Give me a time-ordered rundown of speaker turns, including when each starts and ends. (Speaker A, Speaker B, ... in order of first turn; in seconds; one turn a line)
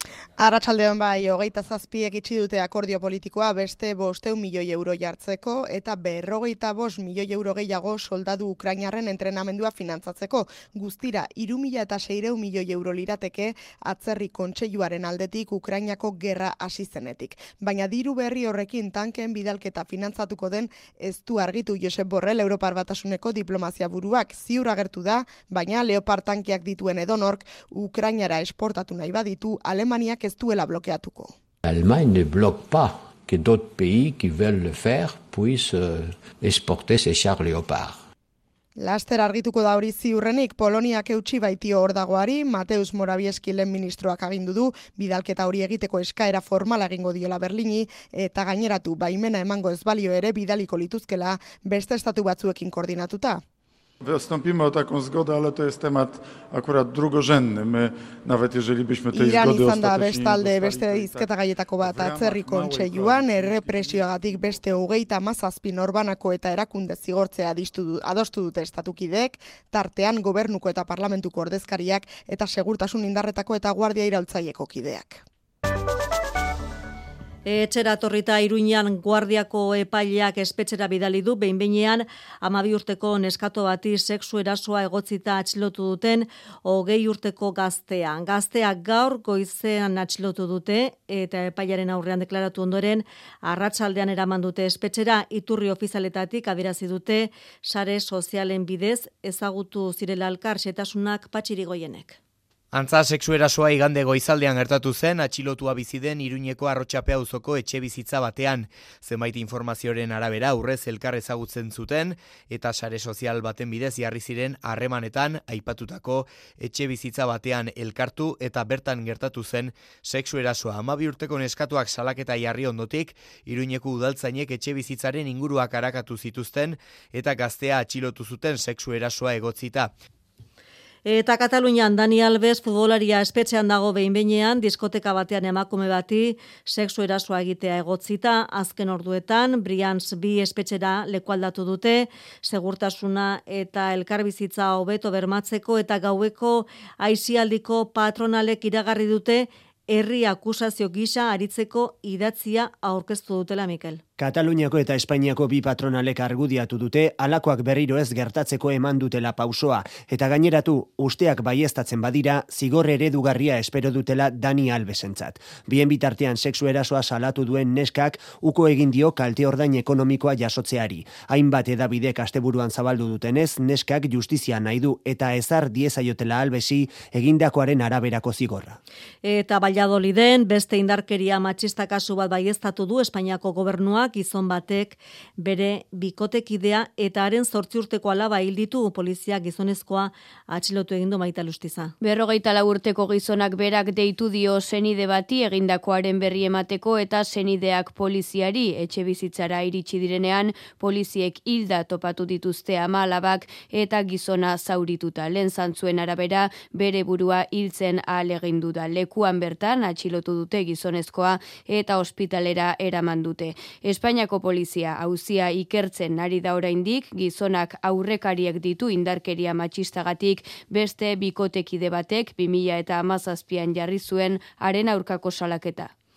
Speaker A: 0.4-31.3
Speaker B: 31.6-38.0
Speaker A: 38.8-53.4
Speaker C: 54.0-64.6
Speaker A: 59.1-75.2
Speaker D: 77.5-102.2
Speaker E: 102.7-129.9
Speaker D: 131.0-154.0
Speaker F: 154.2-178.8
Speaker D: 179.2-191.9
Speaker G: 192.0-225.9